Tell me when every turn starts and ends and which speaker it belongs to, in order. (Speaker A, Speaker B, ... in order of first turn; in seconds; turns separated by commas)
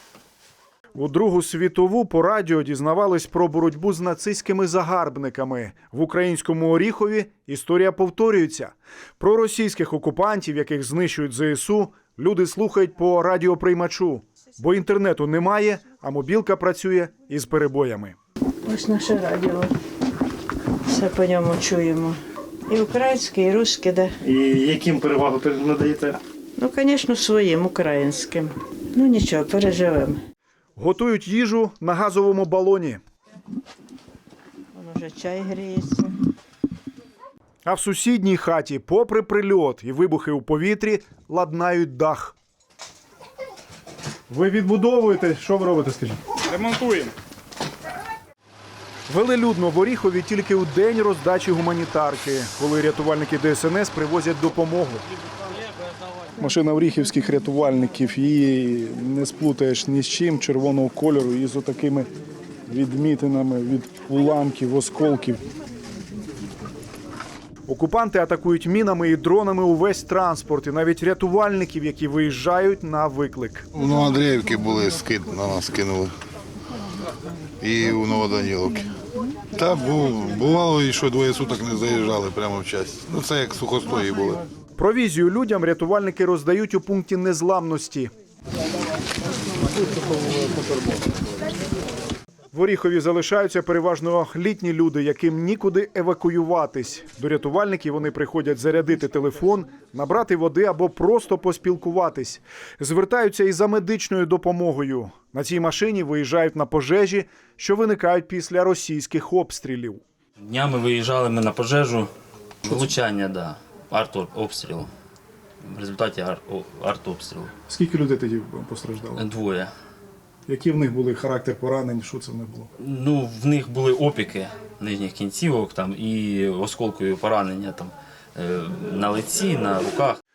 Speaker A: 0.9-18.1, Speaker B: 18.6-19.7, Speaker B: 20.9-24.2, Speaker C: 24.2-26.1, Speaker B: 26.6-30.2, Speaker A: 30.8-33.0, Speaker B: 34.7-36.1, Speaker A: 37.6-42.3, Speaker A: 44.3-46.2, Speaker C: 46.5-47.1, Speaker A: 49.1-55.0, Speaker A: 56.4-62.1, Speaker A: 62.7-65.4, Speaker A: 67.7-73.7, Speaker D: 73.7-76.1, Speaker D: 77.6-78.9, Speaker D: 79.5-84.4, Speaker A: 84.8-88.1, Speaker A: 92.5-110.0, Speaker E: 110.4-112.1, Speaker E: 112.6-114.9, Speaker E: 115.6-117.5, Speaker A: 117.7-119.2, Speaker E: 119.2-119.7, Speaker A: 120.5-122.7, Speaker E: 122.8-130.2